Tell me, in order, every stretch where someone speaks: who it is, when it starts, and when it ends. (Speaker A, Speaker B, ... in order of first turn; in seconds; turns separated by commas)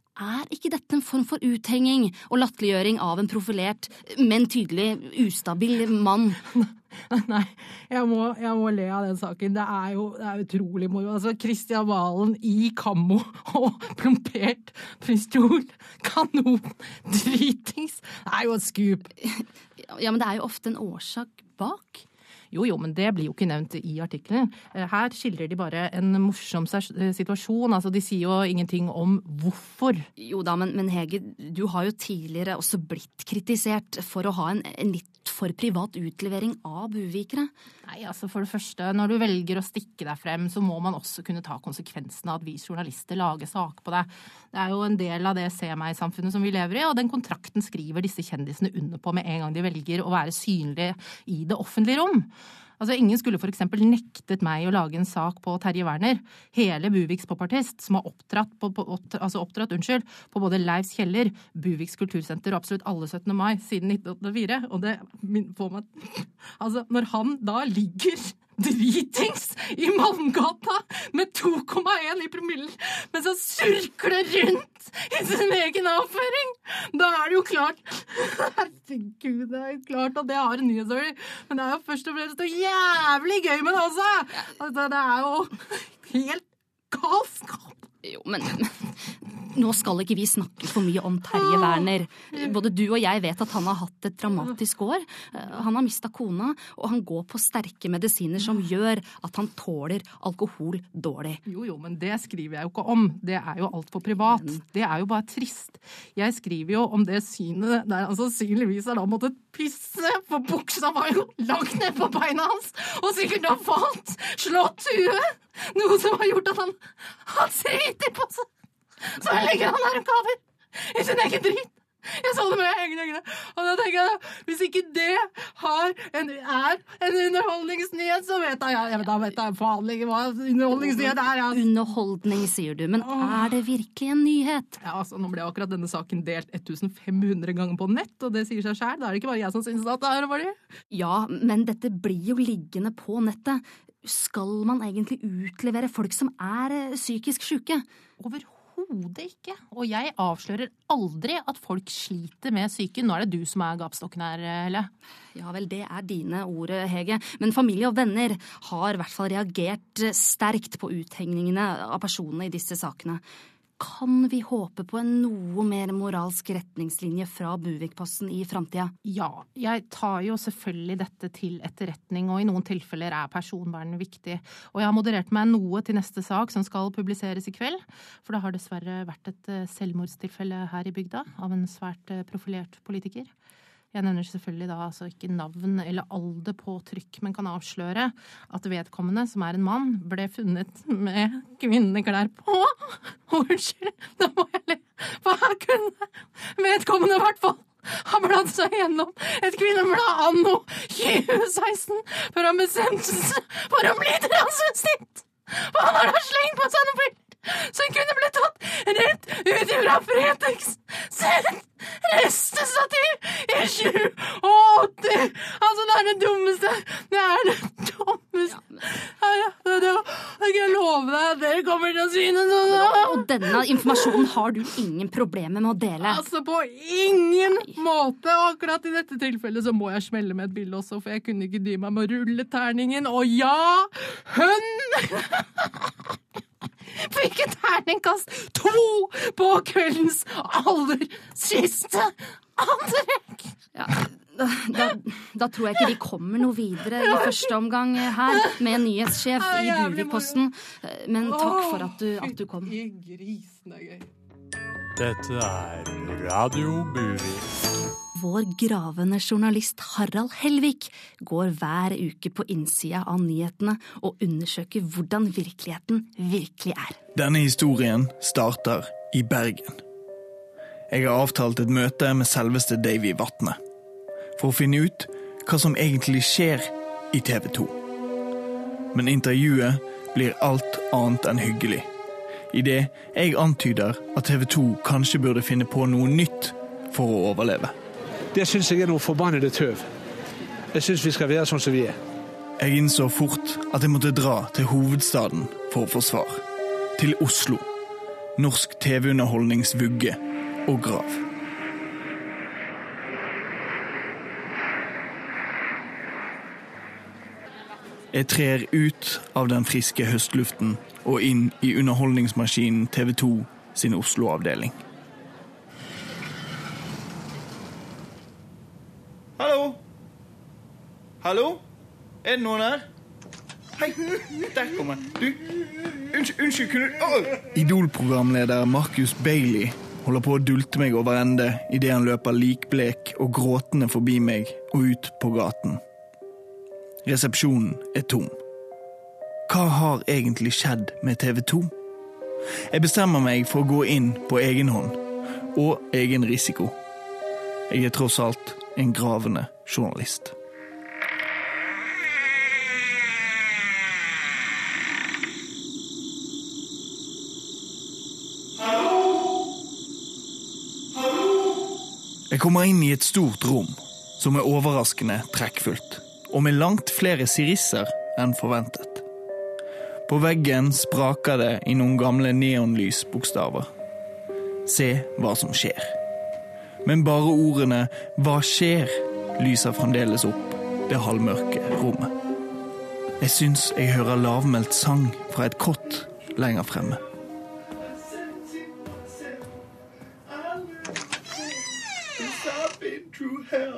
Speaker A: 0.2-6.4, Speaker B: 6.5-19.1, Speaker A: 19.2-22.1, Speaker B: 22.5-30.1, Speaker A: 30.2-37.5, Speaker B: 37.9-87.8, Speaker A: 88.0-88.9, Speaker A: 89.5-101.4, Speaker B: 91.4-92.5, Speaker B: 101.5-118.5, Speaker A: 104.2-104.6, Speaker B: 119.0-131.7, Speaker A: 130.8-134.8, Speaker B: 133.0-133.5, Speaker B: 134.8-140.6, Speaker A: 140.9-147.8, Speaker B: 148.2-154.9, Speaker A: 155.3-163.2, Speaker A: 163.8-168.9, Speaker B: 169.1-183.3, Speaker B: 183.9-224.3, Speaker A: 222.7-226.2, Speaker B: 226.0-235.9, Speaker B: 236.9-243.5, Speaker A: 243.8-252.8, Speaker B: 247.0-247.4, Speaker B: 249.2-250.5, Speaker B: 251.2-254.1, Speaker C: 255.0-257.5, Speaker A: 258.1-267.0, Speaker D: 267.1-269.8, Speaker D: 270.9-273.6, Speaker D: 274.4-277.8, Speaker D: 278.9-281.9, Speaker D: 282.5-287.7, Speaker C: 288.3-289.9, Speaker C: 290.7-292.0, Speaker D: 292.6-296.4, Speaker D: 297.0-297.7, Speaker D: 298.4-301.2, Speaker D: 308.1-314.8, Speaker D: 327.4-335.8, Speaker D: 337.0-338.4, Speaker D: 339.5-341.7, Speaker D: 342.7-345.0, Speaker D: 345.5-346.8, Speaker D: 347.7-350.3, Speaker D: 362.3-369.1, Speaker D: 370.1-373.7, Speaker D: 374.6-376.0, Speaker D: 376.8-382.1, Speaker D: 383.2-387.0